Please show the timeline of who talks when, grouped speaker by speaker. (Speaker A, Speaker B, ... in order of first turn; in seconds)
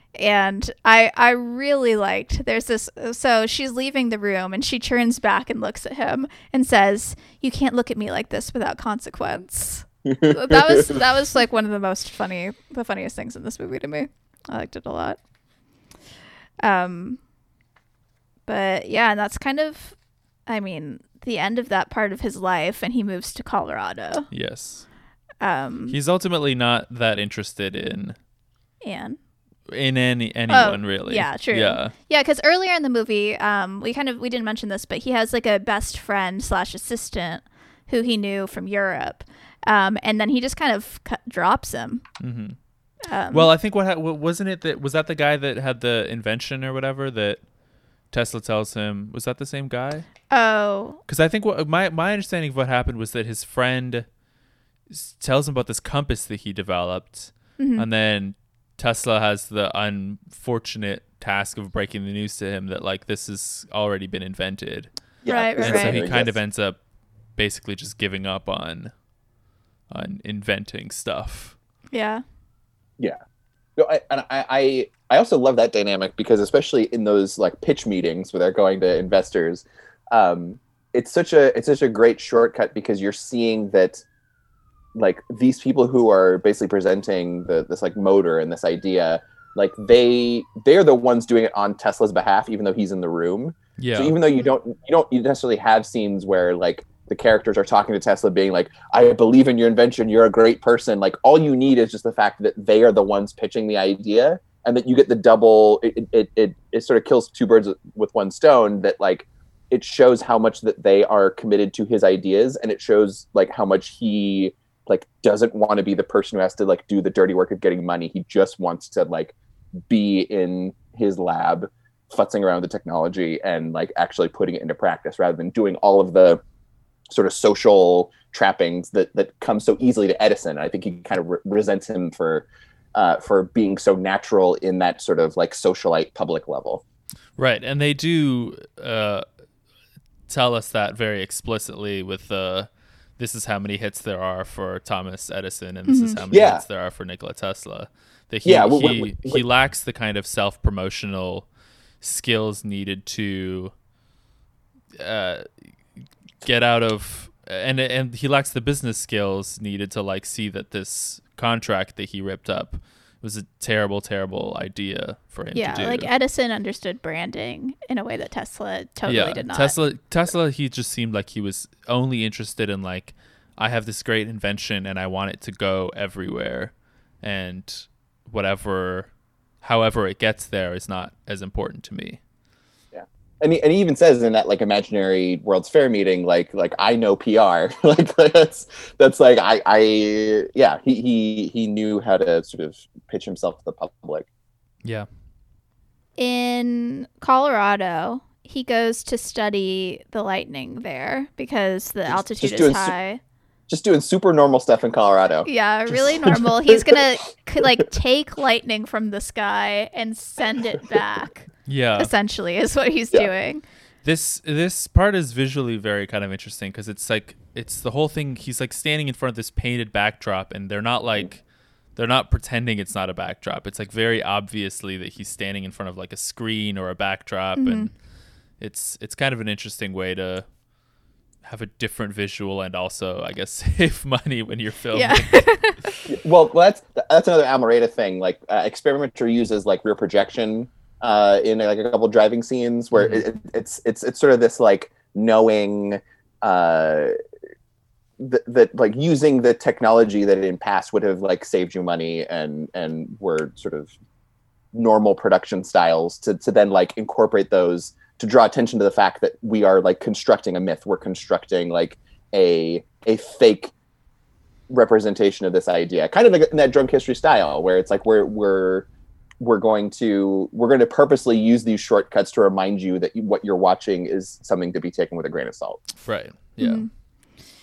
Speaker A: 0.1-15.2, 16.6-17.2, 18.5-24.3, 25.4-26.0, 28.8-29.2, 30.5-42.0, 43.1-43.5, 50.3-51.0, 57.6-57.9, 65.3-66.0, 71.9-72.2, 145.9-146.2, 165.5-169.8, 196.2-203.2, 205.4-213.6, 227.6-227.9, 234.9-235.9, 276.6-276.9
Speaker B: 10.1-11.0, 65.2-66.4, 73.8-84.0, 84.9-119.3, 119.9-126.4, 127.1-136.8, 146.3-146.6, 148.4-149.4, 182.9-194.3, 202.1-202.9, 203.7-207.0, 207.6-207.9, 236.1-247.1, 248.2-253.9, 254.7-263.7, 264.7-268.9, 269.4-275.8
Speaker C: 24.3-24.9, 25.9-28.2, 29.7-31.9, 42.2-42.6, 43.3-47.5, 48.1-50.1, 51.1-54.1, 54.9-66.8, 67.3-68.9, 69.9-71.6, 93.8-94.1, 137.3-139.2, 140.3-151.5, 152.0-153.7, 154.9-155.5, 156.4-166.1, 169.1-179.1, 179.6-182.2, 211.7-212.1, 214.0-221.4, 221.9-227.9, 228.6-230.4, 231.4-235.7, 242.9-243.2, 276.0-276.9